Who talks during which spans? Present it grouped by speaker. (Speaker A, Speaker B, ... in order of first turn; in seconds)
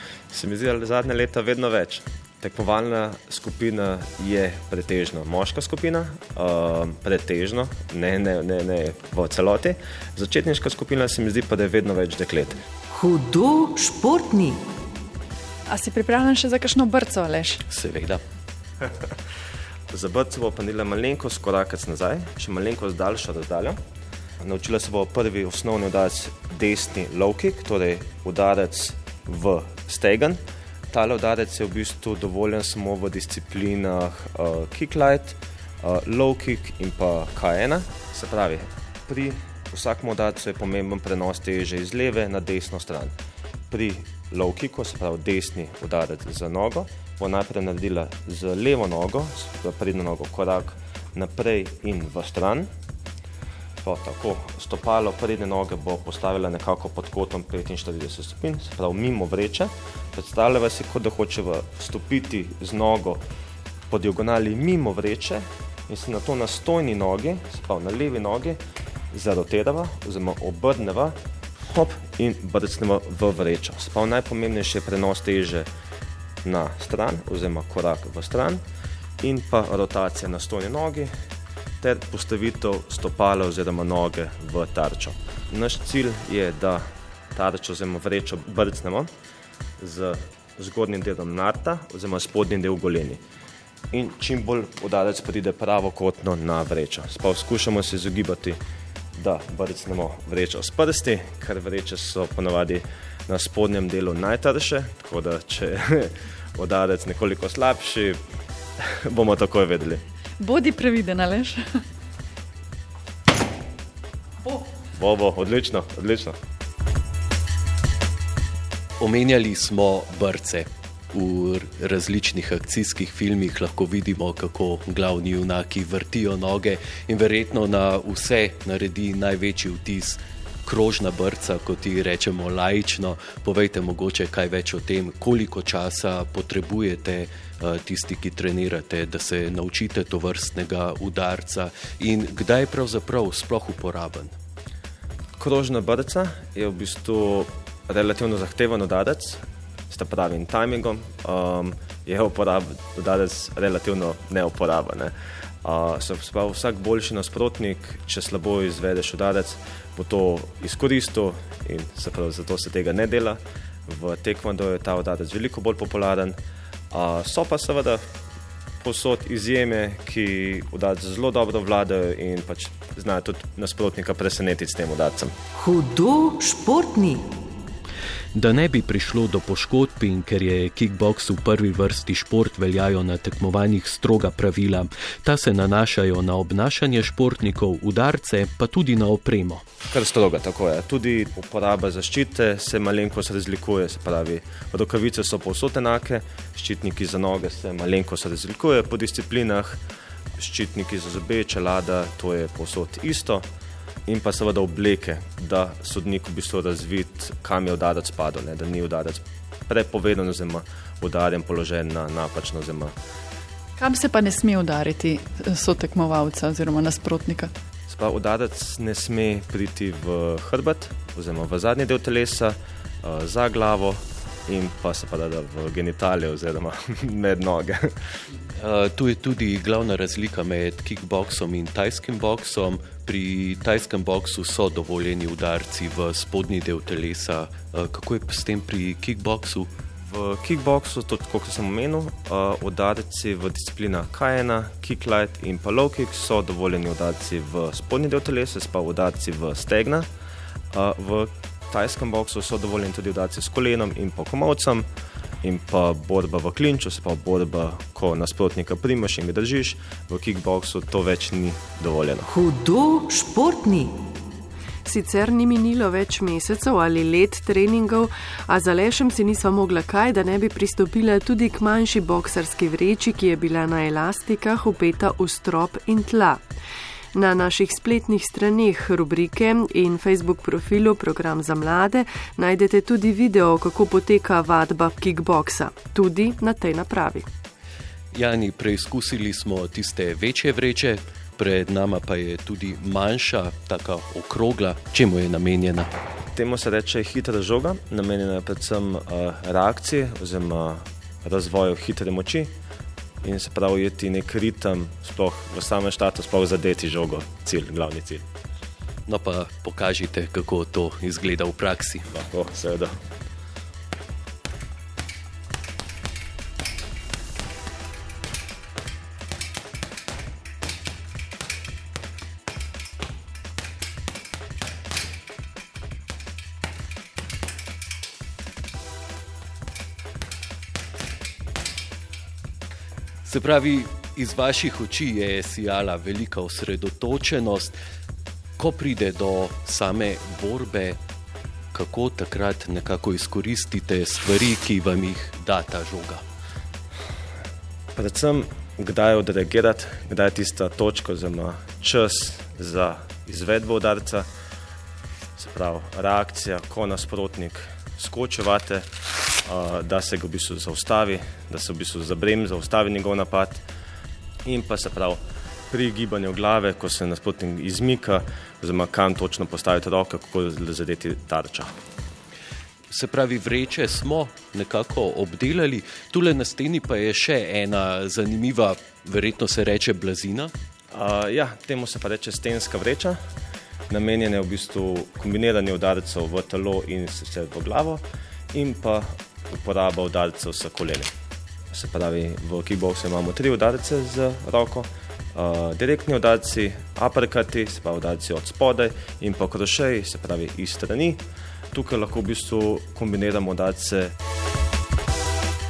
Speaker A: 0.3-12.6, 18.8-19.1, 19.9-23.8, 24.4-43.1, 43.7-52.7, 53.8-63.2, 63.9-75.7, 76.4-78.6, 79.2-81.1, 81.8-89.1, 89.8-93.2, 93.9-98.6, 99.1-108.2, 108.8-110.0, 114.9-116.4, 145.4-166.4, 166.9-168.1, 168.8-175.3, 189.9-199.8, 200.4-203.5, 204.1-212.9, 217.9-227.9, 240.0-250.1, 250.7-254.9, 255.4-262.3, 296.3-302.5, 303.2-308.2, 312.1-313.0, 347.9-354.3, 355.4-358.9, 359.4-363.7, 364.4-371.7, 380.9-383.2, 383.9-391.1, 391.7-404.1
Speaker B: 12.9-14.7, 175.5-177.3, 262.3-264.0
Speaker C: 15.7-17.6, 110.4-111.6, 213.8-217.5
Speaker D: 17.7-18.2, 119.0-144.3, 178.3-189.6, 228.6-239.7, 288.1-295.9, 309.1-312.1, 333.2-337.8, 338.6-341.0, 341.7-346.2, 372.9-380.5
Speaker E: 264.9-276.4, 277.1-287.3